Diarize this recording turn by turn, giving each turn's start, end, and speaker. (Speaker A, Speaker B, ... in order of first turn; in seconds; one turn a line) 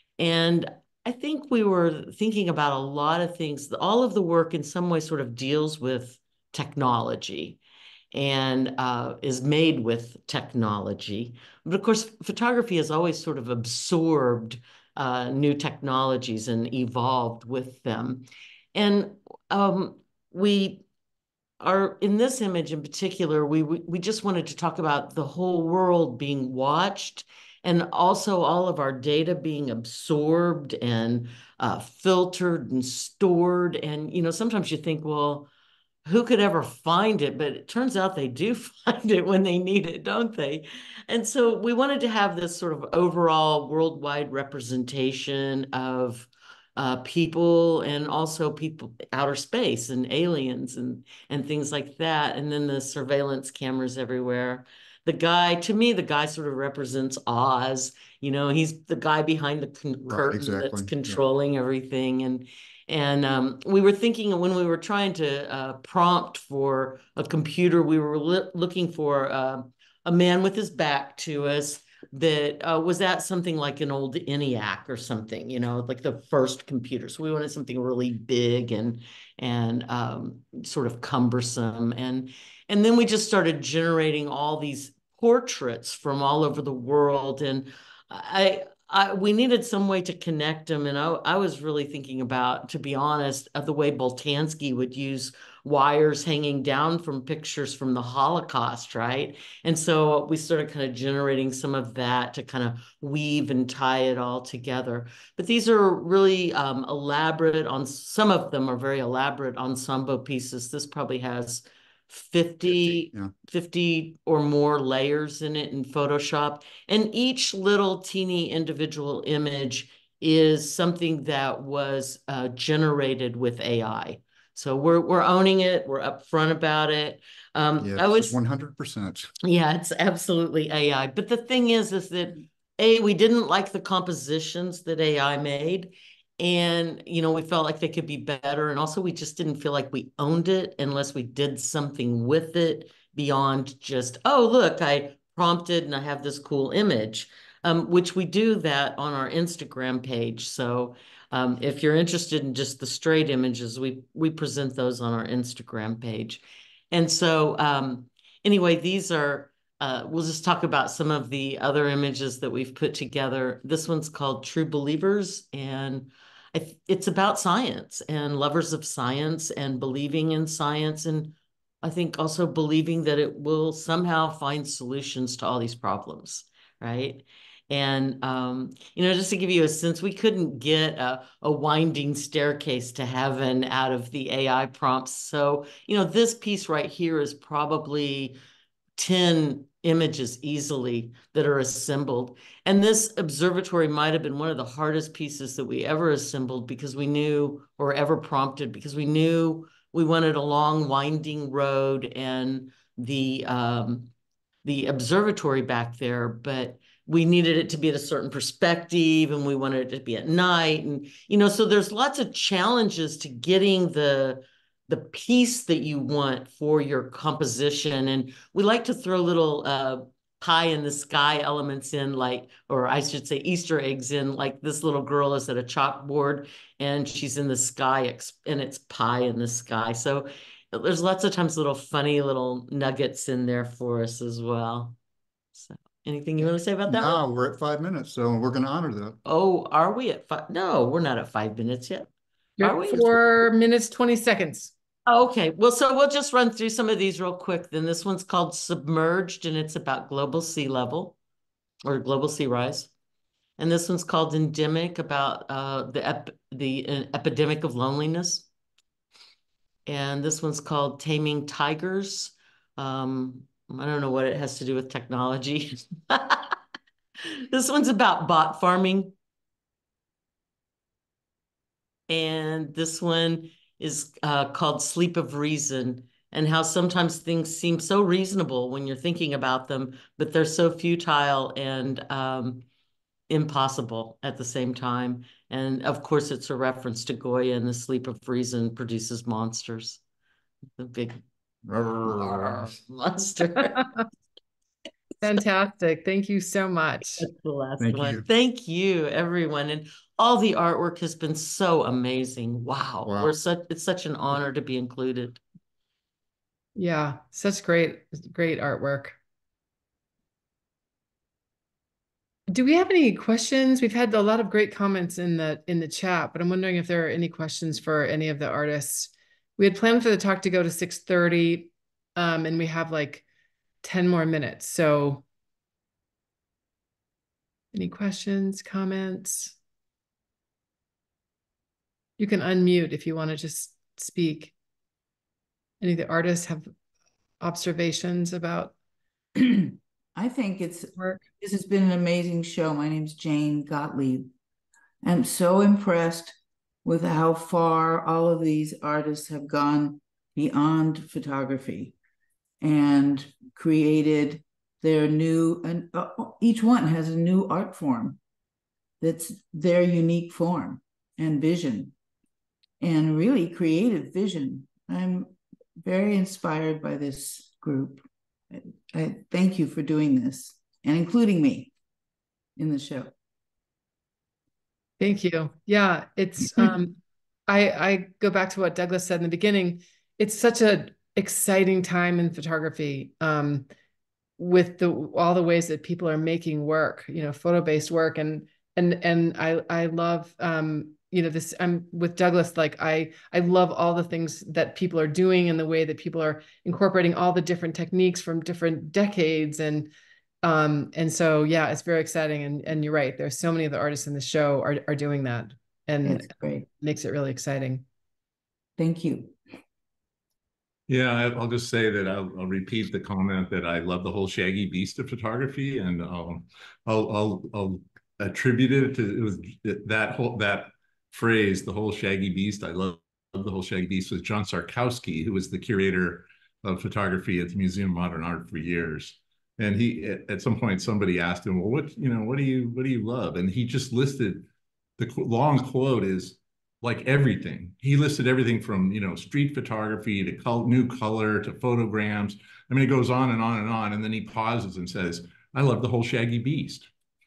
Speaker A: 0.2-7.6
Speaker A: 8.1-20.8
Speaker A: 21.6-35.5
Speaker A: 36.0-128.4
Speaker B: 60.1-61.2
Speaker B: 112.7-113.3
Speaker B: 127.8-129.3
Speaker A: 129.4-188.4
Speaker A: 189.0-204.1
Speaker A: 204.6-235.0
Speaker A: 235.5-237.2
Speaker B: 236.8-239.2
Speaker A: 239.2-243.3
Speaker C: 242.6-244.7
Speaker A: 245.1-251.2
Speaker A: 251.8-252.9
Speaker A: 253.6-258.5
Speaker A: 259.9-266.6
Speaker A: 267.5-269.1
Speaker A: 272.1-282.6
Speaker A: 283.3-290.0
Speaker A: 290.8-291.2
Speaker B: 291.6-292.8
Speaker A: 292.0-293.8
Speaker C: 293.4-294.0
Speaker C: 295.2-297.2
Speaker A: 297.2-305.4
Speaker B: 297.8-298.2
Speaker B: 303.0-303.3
Speaker C: 306.8-309.1
Speaker C: 312.5-323.2
Speaker C: 323.8-325.2
Speaker C: 327.7-329.5
Speaker C: 332.2-334.5
Speaker C: 335.8-336.7
Speaker C: 337.4-338.7
Speaker D: 339.4-344.3
Speaker D: 345.0-351.9
Speaker D: 352.6-358.2
Speaker D: 359.0-361.9
Speaker D: 362.8-371.7
Speaker D: 372.6-373.1
Speaker C: 375.0-376.9
Speaker C: 377.5-383.7
Speaker C: 384.4-399.9
Speaker C: 400.4-407.8
Speaker D: 406.0-406.7
Speaker D: 408.8-409.4
Speaker E: 410.9-434.5
Speaker E: 435.0-446.9